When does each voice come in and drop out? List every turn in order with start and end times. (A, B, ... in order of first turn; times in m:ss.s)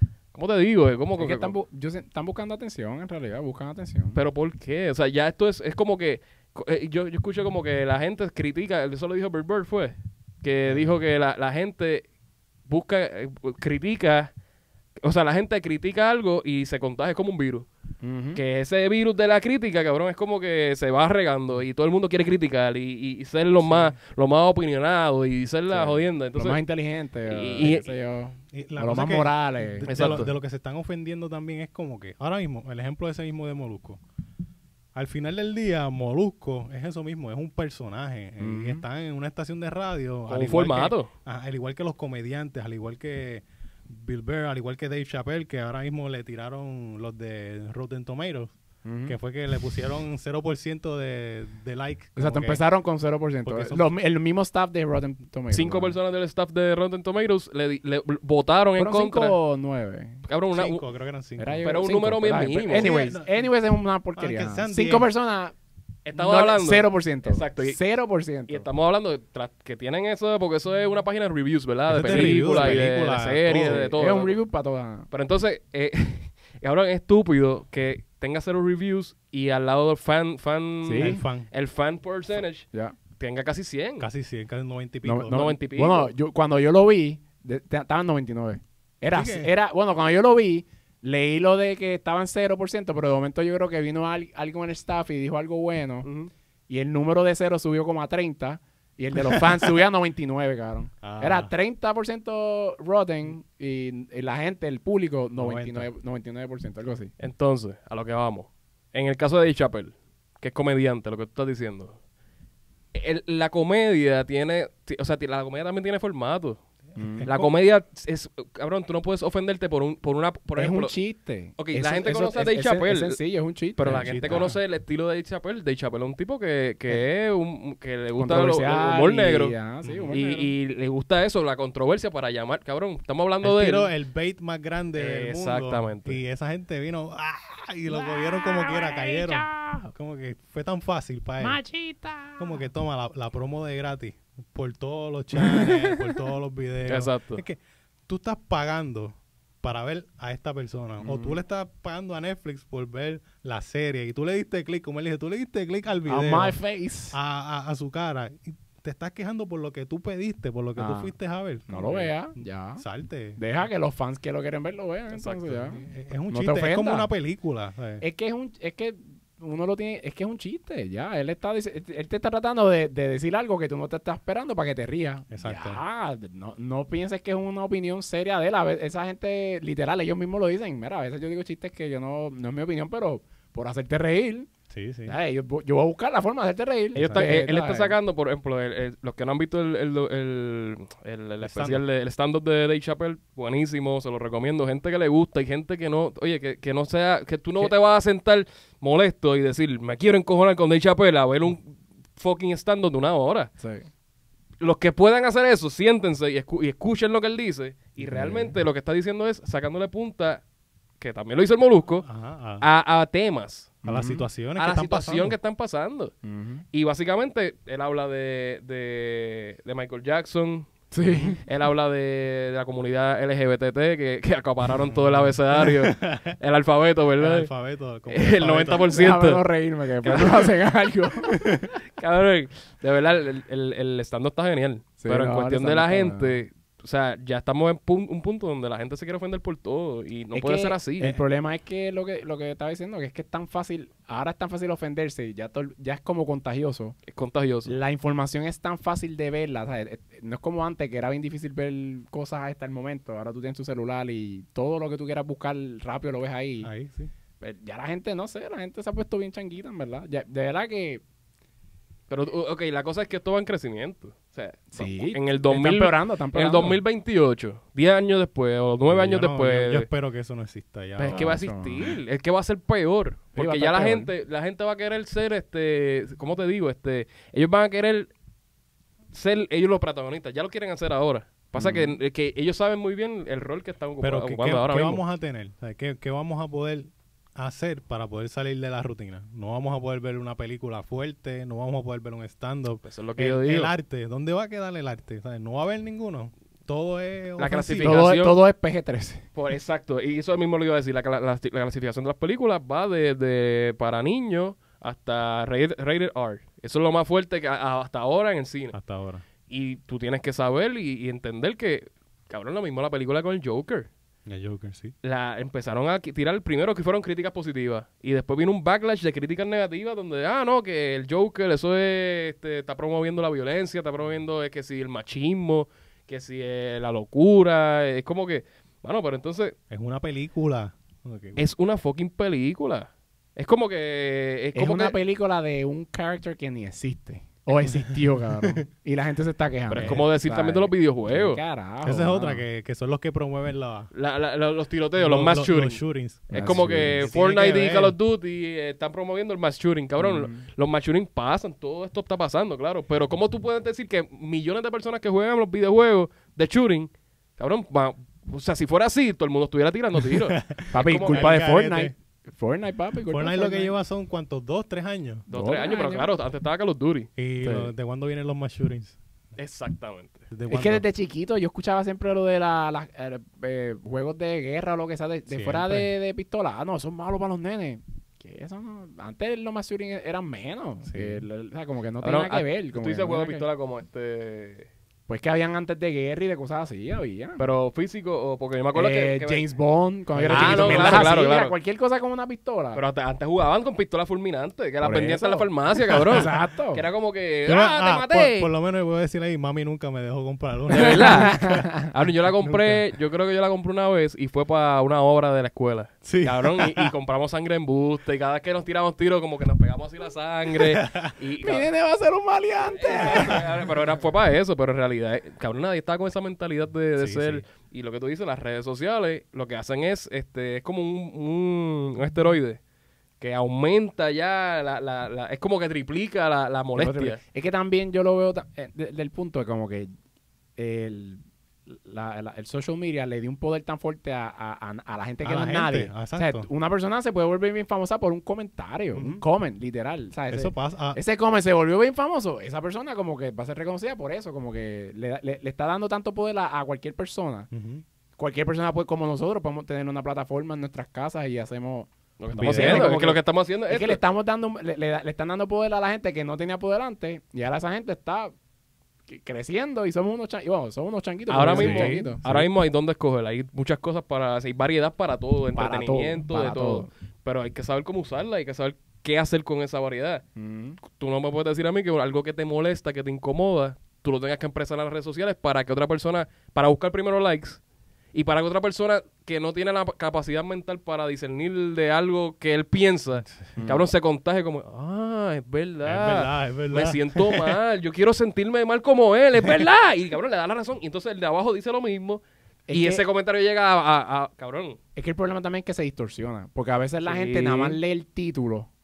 0:00.3-0:01.5 A
0:01.2-0:04.2 B
0:04.2-0:12.1 A
0:12.7-0:14.3 A
0:15.0-0:17.7 A
0:18.0-0:18.4 B
0:18.4-0:26.6 A
0:23.6-0:23.9 C
0:25.7-0:29.9 B
0:27.3-0:28.0 A
0:28.5-0:34.0 C
0:29.9-0:30.3 A
0:35.0-0:48.6 C
0:38.4-0:38.8 B
0:40.3-0:41.1 A
0:48.8-0:49.2 B
0:49.1-0:52.6 C
0:52.2-0:56.0 B
0:53.4-0:53.9 C
0:55.5-0:59.4 A
0:58.8-1:00.2 B
1:00.3-1:00.8 A
1:00.5-1:01.7 C
1:01.4-1:05.6 B
1:01.6-1:03.1 A
1:02.8-1:03.3 C
1:04.2-1:05.1 C
1:06.1-1:07.8 A
1:06.2-1:08.7 B
1:08.5-1:14.4 A
1:11.9-1:13.9 C
1:12.0-1:12.9 B
1:13.5-1:15.1 B
1:15.1-1:24.1 A
1:20.8-1:21.2 B
1:21.0-1:21.5 C
1:24.0-1:25.4 C
1:25.0-1:36.1 B
1:25.3-1:26.1 A
1:29.1-1:29.5 C
1:36.0-1:36.3 A
1:36.7-1:47.1 B
1:41.0-1:41.5 C
1:45.4-1:45.9 C
1:47.2-1:52.0 A
1:52.9-1:56.6 A
1:57.0-1:57.3 B
1:57.2-1:57.5 C
1:57.2-2:01.0 A
2:00.6-2:04.5 B
2:01.6-2:03.2 A
2:03.8-2:09.6 A
2:03.9-2:04.6 C
2:08.2-2:10.5 B
2:09.8-2:10.2 C
2:10.1-2:13.9 A
2:13.4-2:21.6 C
2:15.0-2:16.2 A
2:17.9-2:19.9 B
2:21.4-2:22.6 B
2:22.4-2:36.6 C
2:25.4-2:26.0 B
2:26.9-2:27.4 A
2:31.0-2:31.4 B
2:36.1-2:37.2 B
2:37.1-2:42.1 C
2:40.8-2:41.1 B
2:41.7-2:42.8 B
2:42.8-2:43.4 C
2:43.4-2:47.1 B
2:45.1-2:45.8 A
2:45.8-2:48.0 C
2:48.0-3:04.5 B
2:55.3-2:55.8 C
3:04.7-3:05.2 C
3:05.1-3:08.0 B
3:07.0-3:07.4 C
3:07.0-3:23.5 A
3:11.4-3:11.8 C
3:23.6-3:23.9 B
3:24.6-3:30.4 A
3:28.0-3:28.6 B
3:31.0-3:32.1 A
3:32.0-3:32.7 C
3:32.6-3:33.8 A
3:33.8-3:34.2 B
3:33.9-3:35.4 C
3:34.6-3:36.1 A
3:36.2-3:36.6 B
3:36.7-3:40.7 A
3:40.9-3:41.4 B
3:41.4-3:47.5 A
3:44.9-3:46.4 C
3:47.2-3:49.1 C
3:48.1-3:49.4 A
3:48.9-3:51.6 B
3:50.0-3:50.5 A
3:51.9-4:01.2 A
3:55.0-3:56.4 B
4:00.3-4:07.0 B
4:07.1-4:07.7 A
4:07.7-4:16.7 B
4:16.6-4:17.1 C
4:17.4-4:21.0 B
4:22.1-4:29.9 A
4:24.7-4:26.8 B
4:28.9-4:31.4 C
4:31.0-4:32.0 B
4:31.0-4:38.1 A
4:33.4-4:34.1 B
4:39.1-4:45.0 A
4:41.6-4:41.9 B
4:44.0-4:58.0 C
4:52.8-4:53.7 A
4:57.4-4:58.4 A
4:57.8-4:59.2 B
4:59.4-5:08.8 A
5:08.7-5:09.2 C
5:09.5-5:13.9 A
5:14.3-5:14.9 C
5:15.0-5:29.6 A
5:29.7-5:31.4 C
5:31.4-5:35.0 A
5:34.6-5:42.4 B
5:39.7-5:41.4 A
5:41.8-5:43.9 C
5:43.9-6:01.4 A
5:45.0-5:48.0 C
5:46.3-5:47.2 B
5:50.0-5:50.4 B
6:00.0-6:01.9 C
6:00.7-6:03.8 B
6:03.1-6:05.3 C
6:05.3-6:06.1 B
6:05.3-6:07.1 A
6:07.2-6:09.0 C
6:07.4-6:07.7 B
6:09.4-6:10.3 A
6:10.3-6:10.8 C
6:10.5-6:23.4 B
6:15.3-6:15.9 C
6:20.9-6:21.2 C
6:22.0-6:24.7 A
6:25.1-6:27.4 B
6:27.4-6:29.4 A
6:28.7-6:32.8 B
6:30.1-6:31.2 C
6:30.3-6:31.6 A
6:32.7-6:38.5 A
6:34.8-6:35.5 B
6:35.9-6:36.3 C
6:36.1-6:36.8 B
6:37.5-6:41.7 C
6:40.7-6:51.7 A
6:40.7-6:41.9 B
6:42.2-6:42.8 C
6:46.0-6:46.9 C
6:50.5-6:51.1 C
6:51.4-6:53.6 B
6:52.7-7:02.6 A
6:57.0-6:57.4 C
7:03.2-7:07.2 A
7:06.8-7:09.9 B
7:10.6-7:27.5 B
7:15.2-7:16.5 C
7:18.9-7:19.2 C
7:20.3-7:21.0 C
7:27.5-7:27.8 C
7:28.2-7:38.3 B
7:32.2-7:34.0 A
7:32.4-7:32.9 C
7:39.1-7:42.2 B
7:41.3-7:50.2 A
7:41.4-7:42.5 C
7:45.5-7:46.9 B
7:50.4-7:50.8 B
7:50.9-7:57.6 A
7:58.1-8:14.8 A
8:03.6-8:03.9 B
8:05.8-8:07.6 C
8:12.7-8:13.0 B
8:15.0-8:18.7 B
8:17.0-8:17.8 A